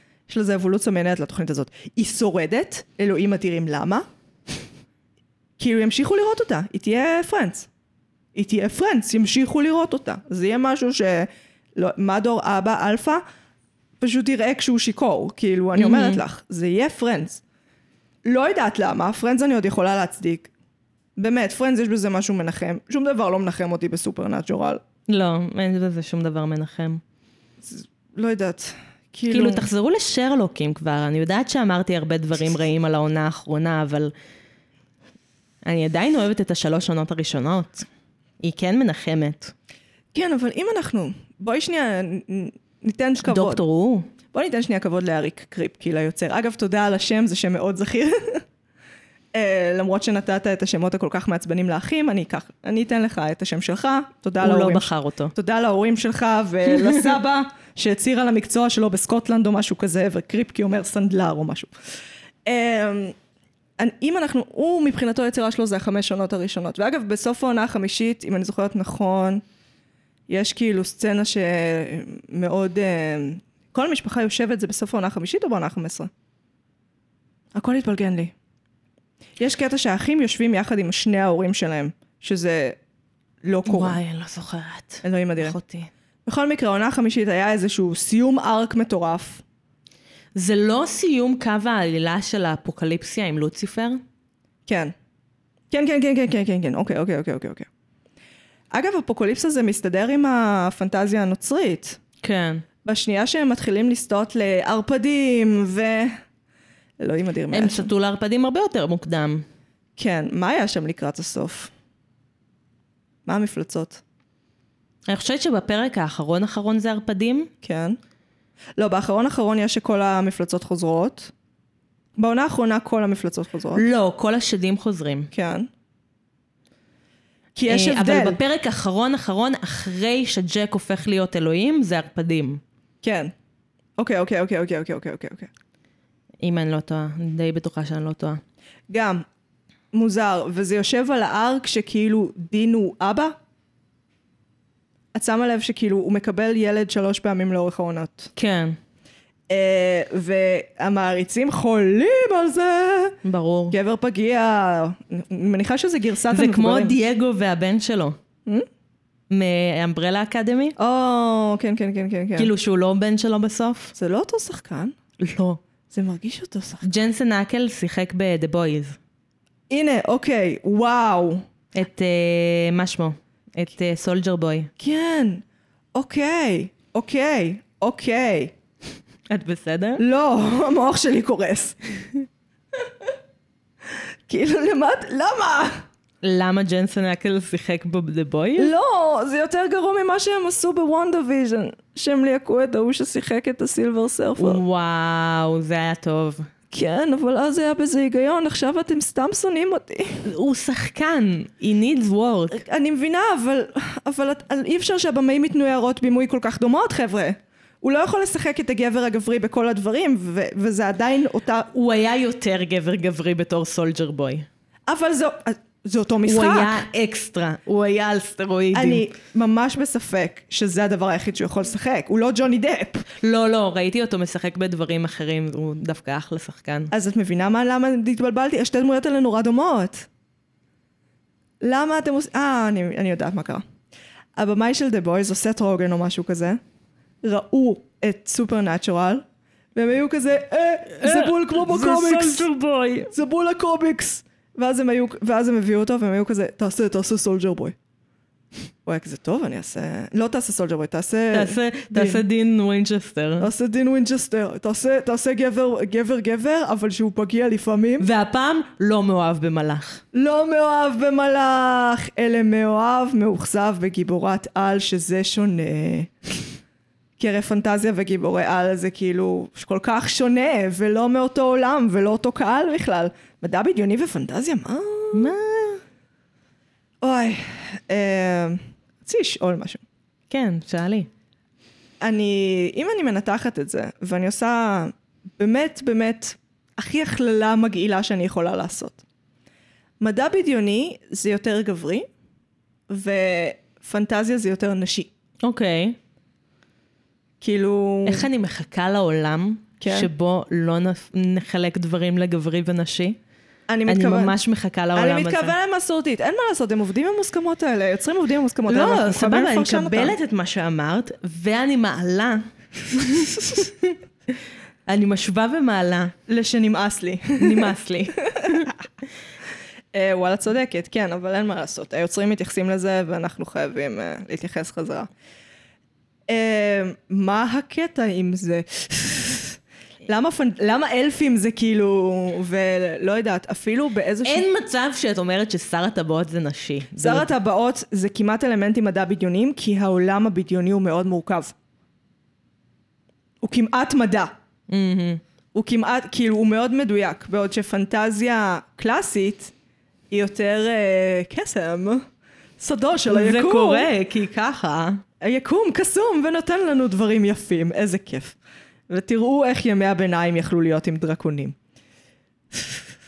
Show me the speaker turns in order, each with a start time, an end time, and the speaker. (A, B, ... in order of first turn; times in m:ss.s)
0:00.3-0:04.0 A
0:05.6-0:07.7 A
0:08.3-0:13.2 A
0:14.0-0:17.4 A
0:15.8-0:16.2 B
0:18.2-0:20.5 A
0:21.2-0:24.8 A
0:25.1-0:27.0 B
0:27.6-0:29.7 A
0:29.3-0:34.1 B
0:35.6-0:37.8 B
0:38.4-0:39.5 B
0:40.1-0:43.6 A
0:43.2-0:44.1 B
0:44.3-0:48.4 A
0:49.3-1:01.7 A
0:54.4-0:55.3 B
0:56.7-0:57.0 B
1:02.4-1:03.2 A
1:03.8-1:09.4 A
1:10.3-1:16.1 A
1:17.5-1:18.3 A
1:19.4-1:22.8 A
1:23.4-1:24.0 A
1:23.7-1:25.9 B
1:25.0-1:25.6 A
1:26.2-1:29.4 A
1:30.3-1:34.0 B
1:34.6-1:34.9 A
1:35.7-1:37.7 A
1:38.7-1:42.0 A
1:42.2-1:42.6 B
1:42.8-1:46.2 A
1:47.0-1:47.9 A
1:47.5-1:49.4 B
1:50.0-1:51.7 A
1:53.2-1:54.0 A
1:55.1-1:57.5 B
1:57.6-1:58.0 A
1:58.8-2:01.3 A
2:02.2-2:03.8 A
2:03.7-2:05.3 B
2:05.3-2:05.7 A
2:07.5-2:08.4 A
2:07.7-2:12.6 B
2:13.0-2:13.3 A
2:14.0-2:15.5 A
2:16.4-2:18.4 B
2:18.9-2:19.2 A
2:19.9-2:23.4 A
2:25.1-2:28.3 A
2:28.4-2:28.8 B
2:29.5-2:33.2 A
2:33.2-2:33.8 B
2:33.7-2:37.0 A
2:36.3-2:38.2 B
2:39.3-2:40.7 B
2:40.8-2:42.5 A
2:42.4-2:43.9 B
2:43.9-2:44.9 A
2:45.2-2:45.6 B
2:45.9-2:46.9 A
2:46.8-2:49.0 B
2:49.7-2:51.5 A
2:51.7-2:54.7 B
2:54.8-2:55.4 A
2:55.9-2:58.5 A
2:59.3-3:00.0 B
3:00.0-3:01.8 A
3:04.3-3:05.8 A
3:06.2-3:08.7 B
3:08.6-3:14.6 A
3:14.4-3:16.4 B
3:16.7-3:20.3 A
3:20.2-3:22.6 B
3:22.5-3:31.7 A
3:31.7-3:34.4 B
3:34.9-3:36.8 A
3:36.2-3:39.1 B
3:38.7-3:43.0 A
3:43.2-3:46.9 B
3:46.9-3:50.1 A
3:51.6-3:53.6 A
3:54.4-3:56.6 A
3:57.2-4:02.5 A
4:01.0-4:03.1 B
4:03.1-4:07.7 A
4:08.8-4:12.2 A
4:11.3-4:13.5 B
4:13.4-4:18.1 A
4:18.0-4:20.0 B
4:20.1-4:26.4 A
4:27.2-4:35.3 A
4:35.1-4:35.8 B
4:37.0-4:39.8 A
4:40.3-4:41.1 B
4:42.0-4:49.0 A
4:50.0-4:52.1 A
4:52.9-4:55.1 A
4:55.4-4:56.0 B
4:57.4-4:58.3 A
4:58.0-5:03.2 B
4:59.8-5:00.1 A
5:03.7-5:04.4 A
5:03.9-5:05.5 B
5:04.9-5:10.2 A
5:08.7-5:13.9 B
5:14.8-5:16.1 B
5:16.3-5:17.7 A
5:17.4-5:18.7 B
5:18.3-5:18.7 A
5:19.9-5:25.1 A
5:26.3-5:34.5 A
5:34.2-5:37.3 B
5:37.0-5:41.5 A
5:43.4-5:44.3 A
5:44.7-5:45.2 B
5:45.5-5:49.5 A
5:50.1-5:52.0 A
5:52.6-5:53.9 A
5:53.1-5:55.0 B
5:55.2-5:58.4 A
5:58.9-6:01.6 A